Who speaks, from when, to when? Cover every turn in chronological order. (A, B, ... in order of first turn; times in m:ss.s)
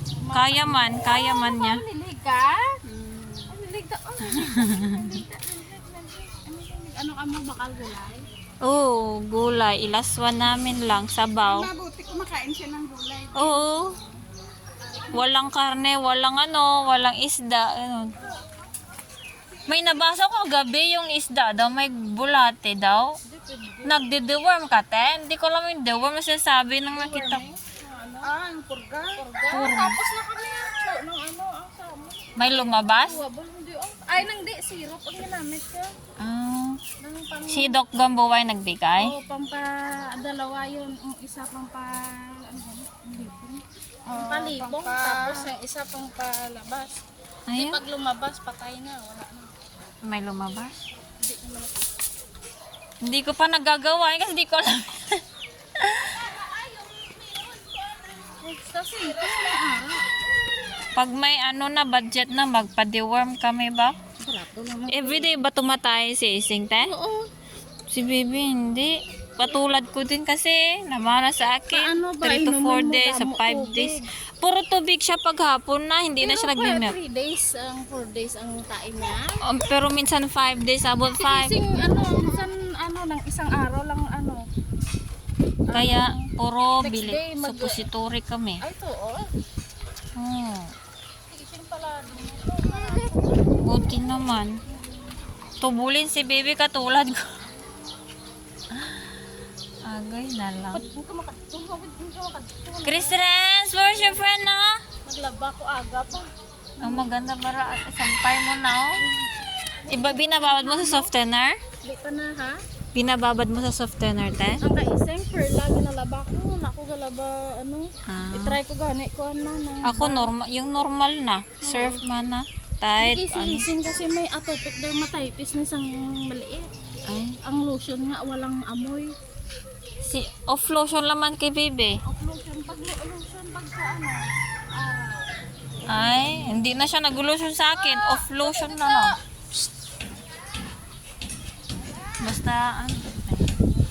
0:00.1-0:02.7 A
0:00.3-0:01.8 B
0:02.8-0:03.5 C
0:03.5-0:08.2 A
0:04.3-0:05.2 B
0:08.6-0:11.7 B
0:11.4-0:13.8 C
0:13.4-0:14.0 B
0:14.8-0:15.5 A
0:15.1-0:18.2 B
0:19.5-0:20.1 C
0:19.7-0:23.1 B
0:23.2-0:24.1 A
0:23.8-0:27.4 B
0:26.9-0:28.3 A
0:28.3-0:29.2 C
0:29.2-0:35.9 A
0:29.5-0:30.0 B
0:32.4-0:33.2 B
0:36.2-0:36.8 B
0:37.0-0:37.8 A
0:37.5-0:39.1 B
0:39.0-0:47.0 A
0:44.1-0:45.5 C
0:47.5-0:47.8 B
0:47.6-0:49.5 A
0:50.0-0:50.8 B
0:51.2-0:51.9 A
0:53.0-0:55.2 B
0:55.8-0:56.1 B
0:56.2-0:58.3 C
0:58.4-1:00.1 A
0:58.9-0:59.6 C
1:00.9-1:04.0 B
1:04.2-1:05.4 A
1:04.9-1:06.9 B
1:06.8-1:07.3 A
1:07.9-1:16.9 B
1:11.7-1:14.1 A
1:16.2-1:19.4 A
1:19.4-1:21.6 B
1:21.2-1:24.4 A
1:25.7-1:26.3 A
1:25.7-1:28.6 B
1:26.8-1:27.8 A
1:28.6-1:29.2 A
1:30.2-1:30.7 B
1:31.3-1:33.7 A
1:33.6-1:34.6 B
1:34.7-1:35.2 A
1:35.6-1:37.3 B
1:38.7-1:39.2 B
1:39.8-1:40.8 B
1:40.7-1:43.2 A
1:42.8-1:44.8 B
1:43.9-1:44.2 A
1:45.0-1:46.3 A
1:46.8-1:47.1 A
1:46.8-1:49.0 B
1:49.0-1:51.1 A
1:49.9-1:51.6 B
1:51.8-1:52.6 A
1:52.9-1:54.6 B
1:54.6-2:00.3 A
1:58.1-1:58.6 B
1:59.8-2:03.7 B
2:01.6-2:02.0 A
2:03.0-2:06.7 A
2:07.1-2:07.4 B
2:07.4-2:09.1 A
2:10.0-2:12.0 B
2:12.0-2:15.4 A
2:15.9-2:16.6 A
2:15.9-2:19.2 B
2:17.8-2:19.1 A
2:22.2-2:23.6 B